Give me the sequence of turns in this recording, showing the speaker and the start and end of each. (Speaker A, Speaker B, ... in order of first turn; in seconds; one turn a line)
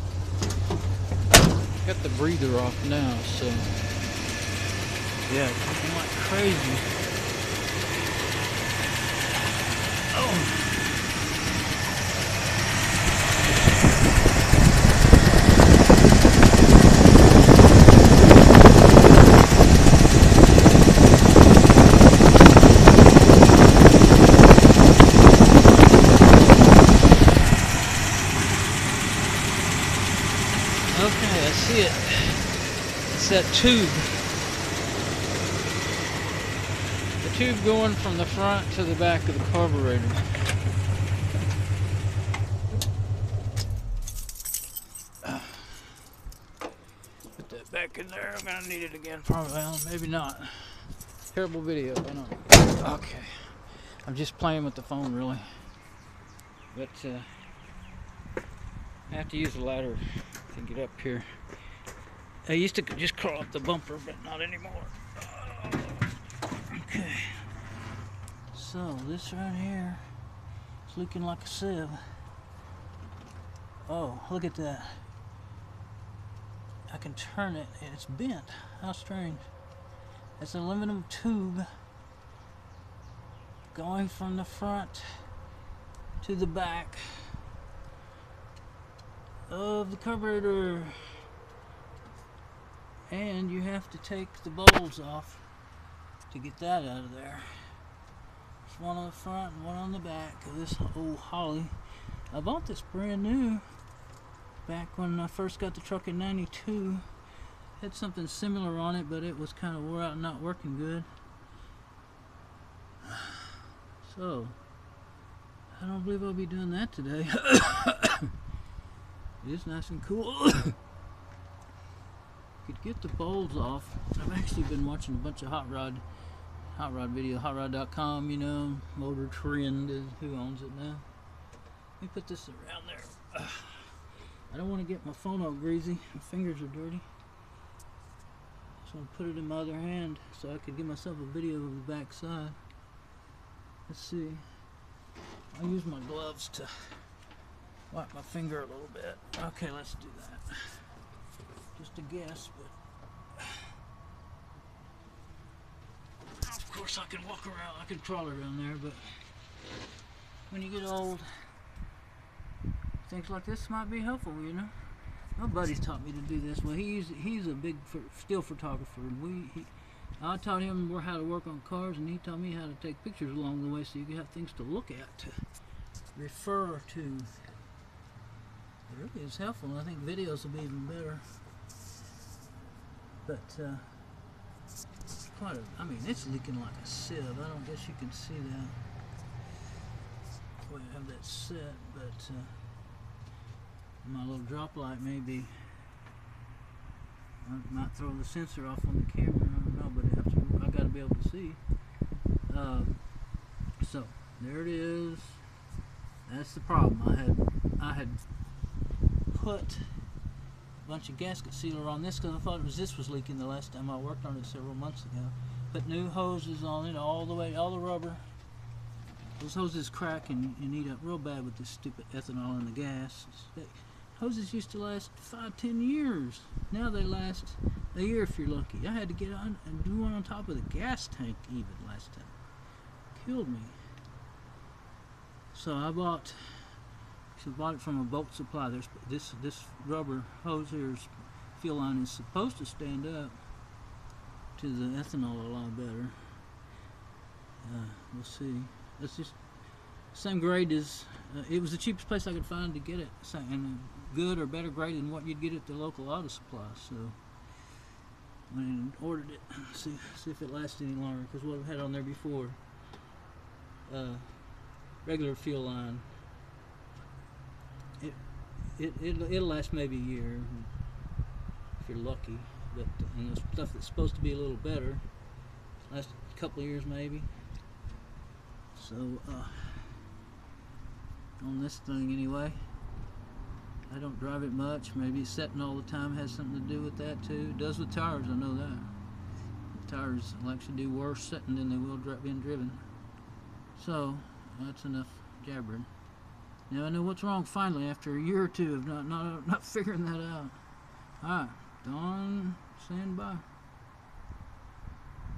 Speaker A: 1.8-3.8
Speaker A: 5.2-6.9
Speaker A: 10.1-11.0
Speaker A: 30.9-34.4
Speaker A: 37.2-40.5
Speaker A: 45.2-46.0
Speaker A: 47.4-55.7
Speaker A: 56.7-57.4
Speaker A: 59.1-61.4
Speaker A: 62.4-66.1
Speaker A: 66.7-67.5
Speaker A: 68.5-70.1
Speaker A: 70.8-72.0
Speaker A: 73.8-75.0
Speaker A: 76.9-79.4
Speaker A: 80.4-81.7
Speaker A: 83.7-85.3
Speaker A: 86.2-87.4
Speaker A: 89.5-91.2
Speaker A: 93.1-95.5
Speaker A: 96.3-97.7
Speaker A: 98.6-103.6
Speaker A: 104.6-107.1
Speaker A: 107.8-111.1
Speaker A: 114.0-114.6
Speaker A: 115.7-118.3
Speaker A: 119.4-120.8
Speaker A: 122.6-126.0
Speaker A: 126.7-131.1
Speaker A: 132.0-137.1
Speaker A: 138.8-142.6
Speaker A: 143.9-144.6
Speaker A: 145.5-147.1
Speaker A: 147.9-150.9
Speaker A: 151.7-152.7
Speaker A: 156.3-159.2
Speaker A: 160.5-161.3
Speaker A: 163.0-164.8
Speaker A: 165.3-175.4
Speaker A: 176.1-177.5
Speaker A: 178.9-181.4
Speaker A: 183.2-184.1
Speaker A: 185.2-188.8
Speaker A: 190.6-192.6
Speaker A: 194.0-195.6
Speaker A: 197.4-201.6
Speaker A: 202.5-203.0
Speaker A: 203.8-205.4
Speaker A: 206.2-208.2
Speaker A: 209.3-210.1
Speaker A: 210.8-218.2
Speaker A: 219.4-232.3
Speaker A: 233.1-233.8
Speaker A: 235.5-236.8
Speaker A: 237.3-243.4
Speaker A: 244.6-246.4
Speaker A: 247.6-249.4
Speaker A: 250.1-257.2
Speaker A: 258.5-262.6
Speaker A: 263.9-266.1
Speaker A: 268.7-270.7
Speaker A: 271.8-275.1
Speaker A: 275.8-277.3
Speaker A: 278.7-280.0
Speaker A: 281.4-282.6
Speaker A: 283.9-288.9
Speaker A: 289.7-292.8
Speaker A: 293.8-295.9
Speaker A: 296.7-300.6
Speaker A: 301.2-303.4